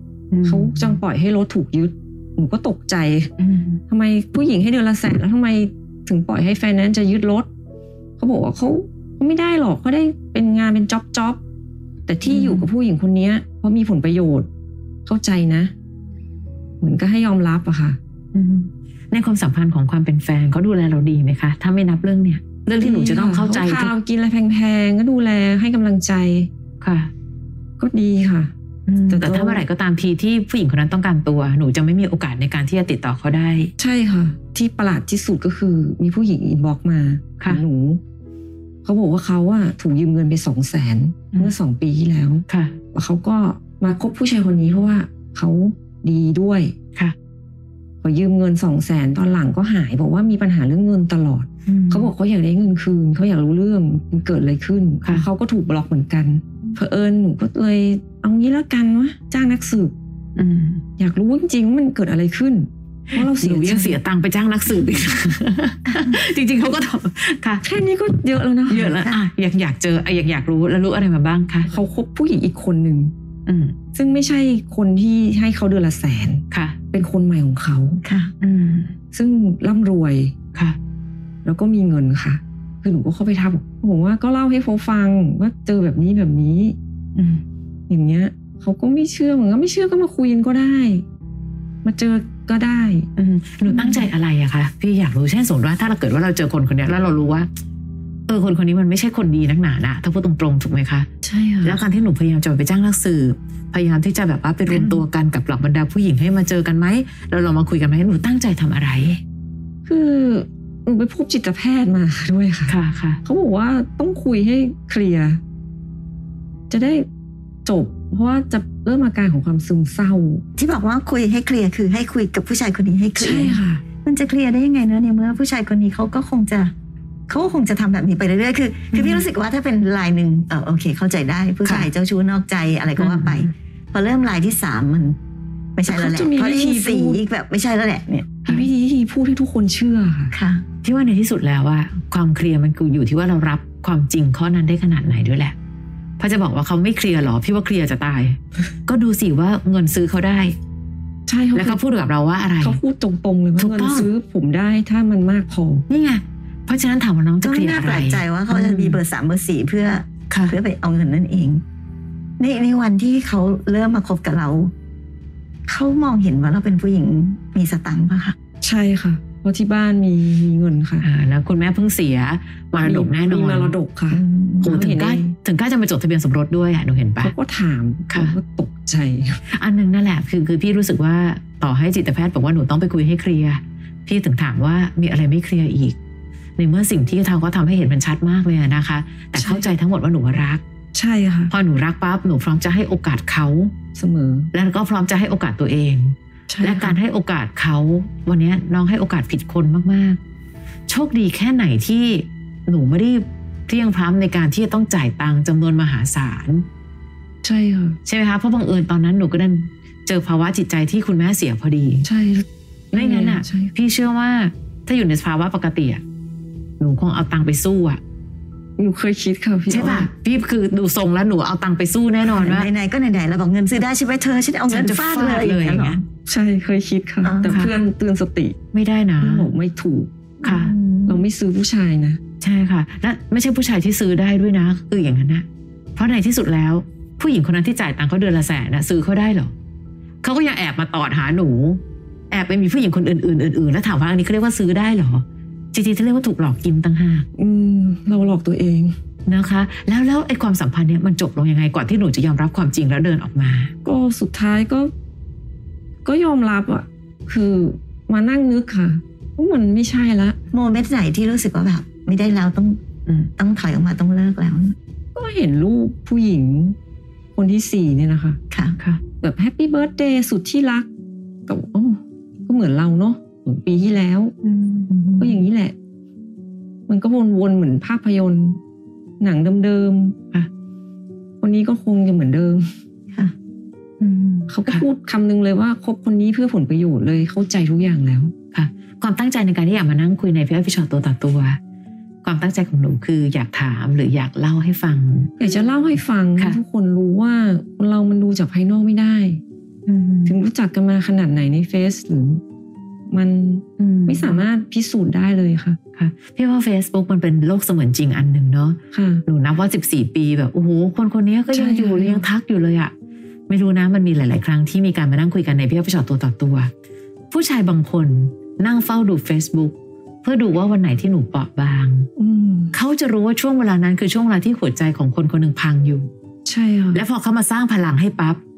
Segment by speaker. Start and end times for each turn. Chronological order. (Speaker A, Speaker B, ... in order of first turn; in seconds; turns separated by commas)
Speaker A: 0.3-1.0, Speaker B: 0.4-3.3, Speaker A: 3.4-3.8, Speaker B: 3.9-7.5, Speaker B: 8.2-11.4, Speaker B: 12.1-14.5, Speaker A: 12.2-12.7, Speaker B: 15.1-15.7, Speaker B: 16.8-18.0, Speaker A: 18.3-23.9, Speaker B: 22.8-26.5, Speaker A: 26.8-27.1, Speaker B: 27.8-28.5, Speaker A: 28.9-33.7, Speaker B: 29.1-29.6, Speaker B: 33.8-38.0, Speaker B: 38.8-46.7, Speaker A: 42.5-42.8, Speaker B: 48.0-59.9, Speaker A: 51.6-52.1, Speaker A: 60.4-60.8, Speaker B: 61.0-64.0, Speaker A: 63.1-67.6, Speaker B: 67.6-68.9, Speaker A: 68.7-71.7, Speaker B: 71.7-73.1, Speaker A: 73.5-73.8, Speaker B: 73.9-78.0, Speaker A: 76.5-76.8, Speaker C: 78.0-78.3, Speaker A: 78.4-78.9, Speaker B: 79.1-80.3, Speaker B: 81.4-86.8, Speaker A: 87.1-87.4, Speaker B: 87.9-91.0, Speaker B: 91.8-93.1, Speaker A: 93.2-97.5, Speaker B: 93.6-94.1, Speaker A: 98.3-101.1, Speaker B: 101.2-101.8, Speaker A: 101.6-109.2, Speaker C: 104.7-105.0, Speaker B: 109.8-115.4, Speaker A: 112.7-113.2, Speaker B: 116.7-117.1, Speaker B: 117.6-120.4, Speaker C: 120.6-126.7, Speaker B: 123.2-123.8, Speaker C: 127.3-135.2, Speaker B: 128.9-129.2, Speaker A: 133.0-133.5, Speaker C: 135.8-138.3, Speaker B: 135.9-137.2, Speaker B: 138.4-140.3, Speaker C: 140.3-140.6, Speaker A: 140.8-145.5, Speaker A: 146.2-150.6, Speaker B: 151.3-151.8, Speaker A: 151.5-152.8, Speaker B: 152.6-155.8, Speaker A: 153.6-154.1, Speaker A: 155.9-159.0, Speaker C: 157.4-161.6, Speaker A: 160.3-160.6, Speaker C: 162.4-164.7, Speaker C: 165.7-168.3, Speaker B: 168.6-171.1, Speaker A: 171.0-173.7, Speaker B: 172.8-175.3, Speaker C: 174.1-174.8, Speaker A: 174.6-177.3, Speaker B: 177.2-179.4, Speaker A: 178.1-178.3, Speaker A: 179.5-185.9, Speaker A: 186.6-190.6, Speaker B: 189.3-189.7, Speaker B: 190.9-191.5, Speaker A: 191.5-193.7, Speaker B: 193.9-194.5, Speaker A: 194.5-200.2, Speaker B: 196.5-197.0, Speaker A: 200.9-206.7, Speaker B: 207.4-208.0, Speaker A: 208.1-212.1, Speaker B: 212.0-213.7, Speaker A: 212.9-216.0, Speaker A: 216.8-218.0, Speaker B: 218.8-220.1, Speaker A: 219.7-222.7, Speaker C: 222.2-226.0, Speaker A: 224.7-226.0, Speaker B: 226.2-228.6, Speaker C: 227.2-227.7, Speaker A: 227.5-227.7, Speaker A: 228.7-229.5, Speaker B: 229.2-230.1, Speaker C: 230.4-231.2, Speaker A: 230.4-230.7, Speaker B: 231.1-232.2, Speaker A: 232.4-239.5, Speaker A: 240.2-247.3, Speaker B: 247.3-248.9, Speaker A: 249.3-253.7, Speaker B: 253.8-254.9, Speaker B: 256.0-260.4, Speaker C: 260.5-262.8, Speaker C: 263.4-264.8, Speaker B: 265.1-266.8, Speaker B: 267.4-268.4, Speaker C: 268.5-268.8, Speaker B: 269.2-270.9, Speaker B: 271.5-274.3, Speaker A: 274.4-274.9, Speaker C: 274.9-275.4, Speaker B: 275.2-275.7, Speaker B: 276.9-278.6, Speaker B: 279.2-280.1, Speaker B: 281.4-282.6, Speaker A: 284.0-284.8, Speaker B: 284.5-288.3, Speaker A: 288.5-291.6, Speaker A: 292.2-295.3, Speaker B: 295.4-299.4, Speaker A: 299.9-300.4, Speaker B: 300.2-302.4, Speaker B: 303.1-305.8, Speaker A: 303.8-304.4, Speaker A: 305.9-312.9, Speaker B: 308.9-309.2, Speaker B: 311.5-312.2, Speaker A: 313.5-316.7, Speaker A: 317.3-322.1, Speaker B: 322.2-322.7, Speaker A: 322.7-326.1, Speaker B: 326.4-327.0, Speaker A: 326.9-328.4